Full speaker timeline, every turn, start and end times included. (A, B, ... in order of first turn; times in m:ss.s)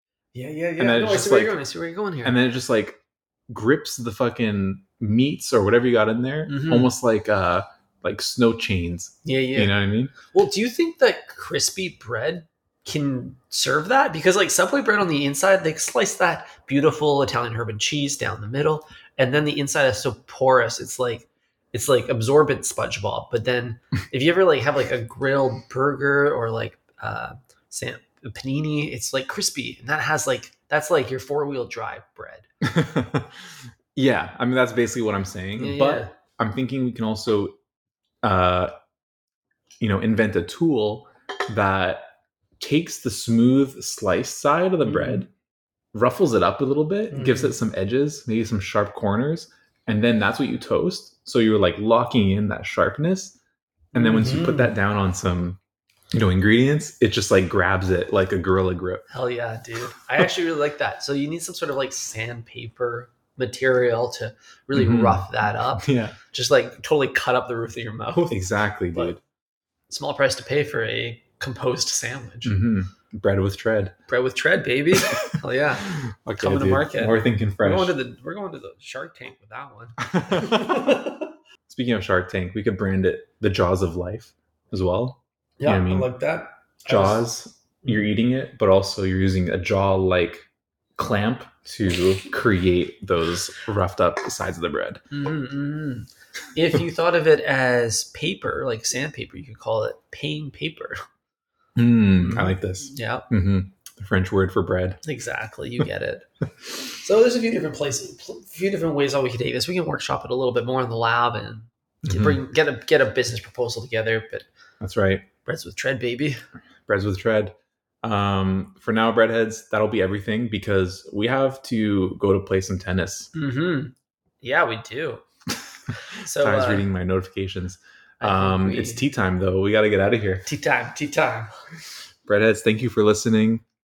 0:00.3-0:02.4 A
0:00.8-0:01.6 B
0:02.2-0:10.1 B
0:06.5-0:06.9 A
0:09.2-0:32.5 A
0:32.6-0:37.6 B
0:35.6-0:36.2 A
0:38.2-0:38.7 B
0:39.8-0:45.3 B
0:44.9-0:45.2 A
0:45.9-0:53.4 B
0:47.1-0:47.6 A
0:53.9-0:54.7 A
0:53.9-0:55.6 B
0:56.1-0:59.1 B
0:59.1-1:09.2 A
1:04.7-1:06.2 B
1:08.3-1:09.2 B
1:09.9-1:12.6 A
1:12.4-1:13.9 B
1:14.1-1:21.3 A
1:15.0-1:15.3 B
1:15.9-1:17.9 B
1:20.2-1:21.0 B
1:21.7-1:26.1 B
1:25.6-1:27.2 A
1:26.9-1:30.5 B
1:31.0-1:35.0 B
1:35.1-1:41.0 A
1:41.8-1:45.0 B
1:42.2-1:43.3 A
1:45.0-1:46.3 A
1:46.8-1:54.5 A
1:52.0-1:52.4 B
1:54.8-1:55.3 B
1:55.4-1:56.4 A
1:56.9-2:03.3 B
2:03.3-2:05.2 A
2:06.1-2:06.9 A
2:06.2-2:10.4 B
2:08.2-2:09.0 A
2:10.5-2:11.5 A
2:12.2-2:13.6 B